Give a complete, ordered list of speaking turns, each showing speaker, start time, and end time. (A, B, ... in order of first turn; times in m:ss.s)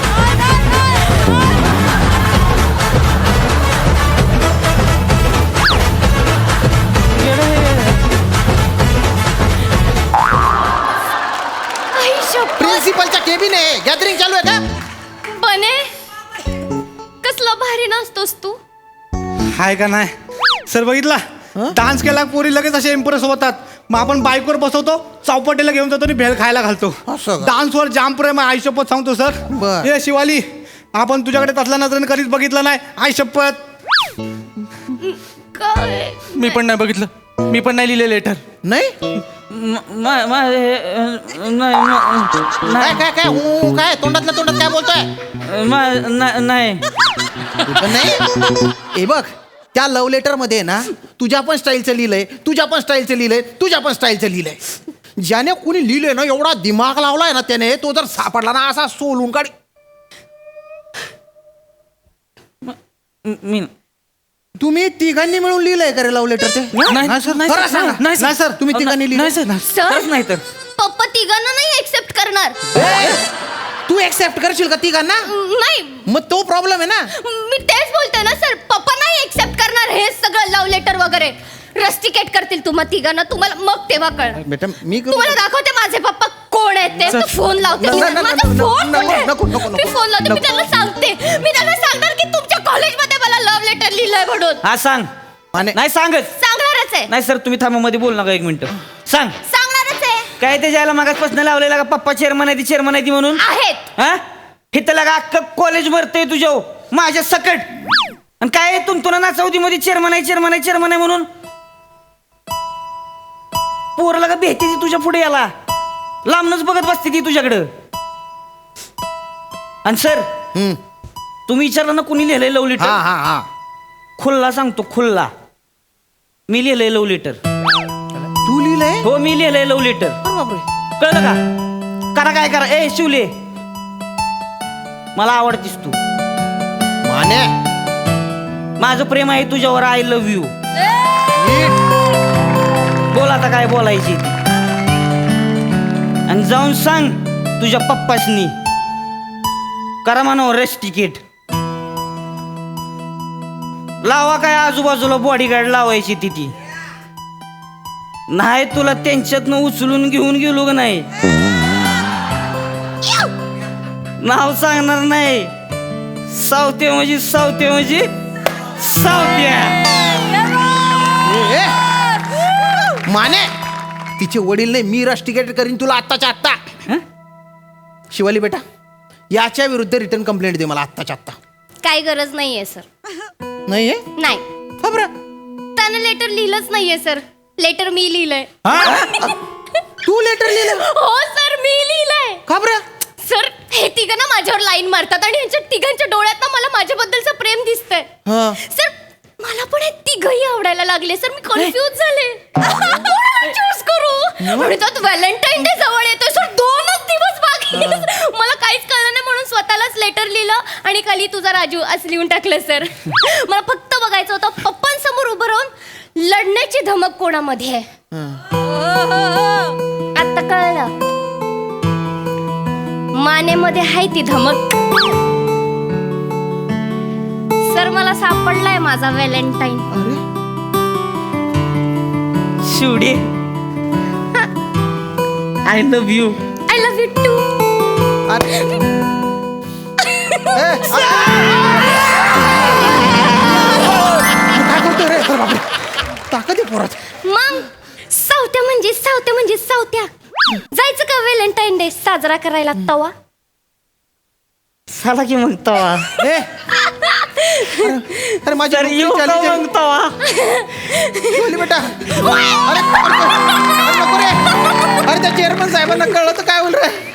0:11.9-0:12.8 A
0:12.6-0:14.6 B
0:15.3-0:15.9 A
0:17.2-0:18.6 A
0:19.5-0:20.1 C
0:20.7-0:33.6 C
0:27.1-0:27.5 B
0:29.5-0:29.9 B
0:34.9-0:36.6 A
0:36.3-0:38.4 D
0:38.6-0:38.9 B
0:39.5-0:43.0 E
0:42.8-0:45.1 B
0:45.4-0:46.8 E
0:47.6-0:48.2 B
0:48.9-0:54.6 B
0:55.2-0:59.5 B
1:02.6-1:03.7 E
1:04.6-1:06.8 B
1:06.7-1:07.0 E
1:06.9-1:08.3 D
1:07.0-1:07.4 C
1:07.4-1:09.3 B
1:08.1-1:08.6 C
1:08.7-1:09.0 E
1:09.1-1:09.6 D
1:09.6-1:10.1 A
1:09.8-1:10.4 E
1:10.8-1:12.6 A
1:12.7-1:13.2 B
1:13.9-1:15.2 B
1:15.3-1:16.0 A
1:16.0-1:17.1 B
1:17.2-1:24.4 A
1:24.4-1:25.4 B
1:25.1-1:34.6 A
1:27.0-1:27.3 D
1:27.8-1:30.5 B
1:34.6-1:35.1 E
1:35.7-1:36.3 E
1:36.4-1:37.1 A
1:37.1-1:39.3 E
1:39.4-1:40.3 A
1:40.4-1:43.4 E
1:43.4-1:43.9 A
1:44.7-1:47.7 E
1:48.4-1:51.3 E
1:54.0-1:55.5 E
1:56.2-1:57.7 E
1:59.8-2:00.2 E
2:01.5-2:03.0 E
2:02.8-2:03.4 B
2:04.2-2:05.3 E
2:06.5-2:07.4 E
2:08.4-2:09.0 B
2:09.0-2:10.2 E
2:10.2-2:10.6 B
2:11.0-2:11.4 E
2:12.1-2:13.3 E
2:15.1-2:16.0 E
2:17.0-2:17.5 B
2:18.8-2:20.5 E
2:21.3-2:21.8 B
2:23.1-2:24.3 E
2:26.3-2:28.5 E
2:30.0-2:31.2 E
2:34.0-2:36.5 E
2:38.3-2:41.0 E
2:44.2-2:45.5 E
2:46.3-2:48.1 E
2:48.8-2:49.8 E
2:51.2-2:51.7 B
2:53.1-2:53.5 B
2:54.2-2:56.6 B
2:58.1-2:58.6 B
2:59.3-3:01.4 B
3:01.8-3:02.8 A
3:03.7-3:04.0 B
3:04.2-3:04.4 A
3:04.8-3:05.1 B
3:05.8-3:09.4 A
3:08.6-3:09.3 B
3:10.0-3:10.8 B
3:10.5-3:12.4 A
3:12.5-3:12.8 B
3:13.2-3:37.8 A
3:18.2-3:18.6 B
3:24.4-3:24.8 B
3:27.7-3:28.0 B
3:38.1-3:38.4 B
3:40.1-3:40.9 A
3:43.2-3:44.8 A
3:47.7-3:49.8 A
3:49.9-3:50.2 B
3:52.7-3:53.2 E
3:55.6-3:56.4 E
3:56.7-3:57.5 A
4:00.0-4:01.4 A
4:00.5-4:02.0 B
4:04.3-4:05.6 B
4:06.3-4:07.0 B
4:07.2-4:10.1 A
4:10.7-4:13.1 A
4:14.9-4:16.1 E
4:16.2-4:16.5 B
4:16.8-4:17.9 A
4:17.8-4:19.6 B
4:18.7-4:20.1 E
4:20.2-4:21.4 A
4:21.3-4:24.4 B
4:22.1-4:22.6 A
4:25.0-4:27.0 B